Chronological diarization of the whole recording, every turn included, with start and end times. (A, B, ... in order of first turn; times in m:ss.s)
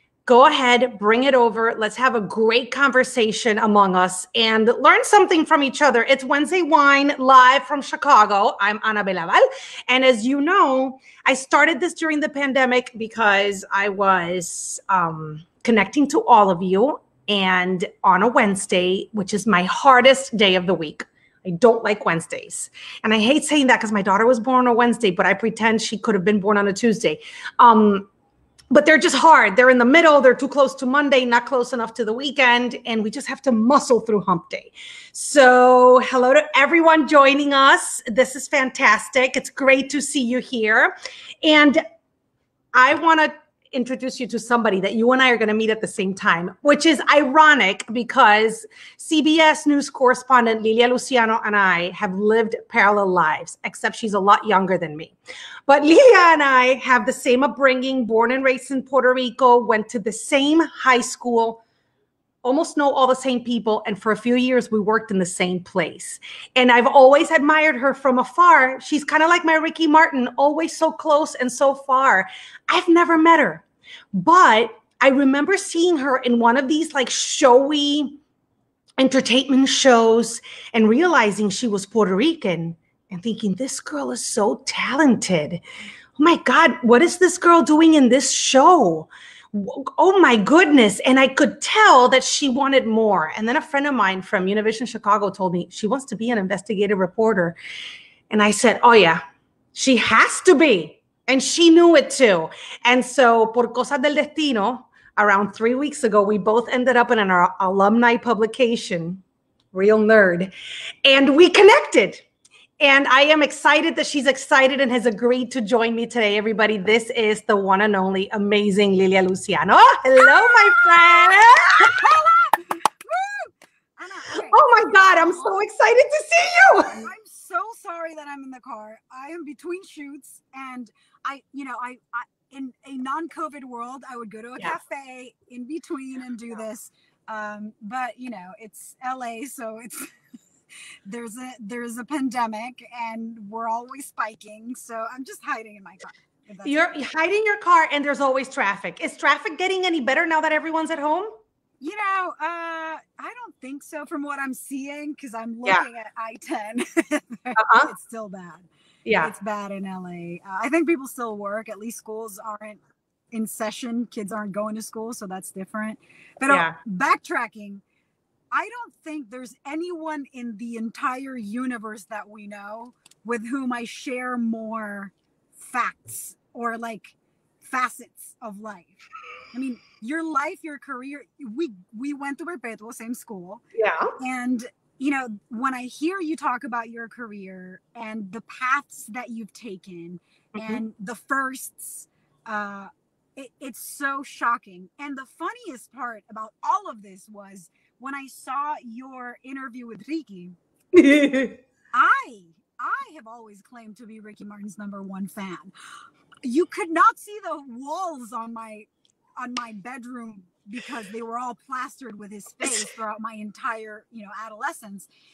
0:00.3-0:28.1 A
0:28.7-0:41.8 A
0:42.7-0:55.2 A
0:55.7-1:01.6 A
1:02.4-1:18.2 A
1:19.0-1:25.6 A
1:26.2-1:37.6 A
1:38.3-1:39.2 A
1:39.7-1:50.5 A
1:51.0-1:52.2 A
1:52.8-2:02.0 A
2:00.2-2:05.5 B
2:04.3-2:07.1 A
2:07.0-2:20.1 B
2:21.1-2:26.8 B
2:26.6-2:31.3 A
2:31.8-2:38.7 B
2:37.6-2:37.9 A
2:39.1-2:39.3 A
2:39.2-2:42.8 B
2:43.3-2:47.8 B
2:46.5-2:46.8 A
2:48.5-2:59.0 B
2:59.5-3:03.6 B
3:03.8-3:04.1 A
3:04.2-3:20.6 B
3:10.6-3:10.8 A
3:20.9-3:21.6 A
3:21.9-3:25.8 B
3:26.4-3:35.1 B
3:32.6-3:32.9 A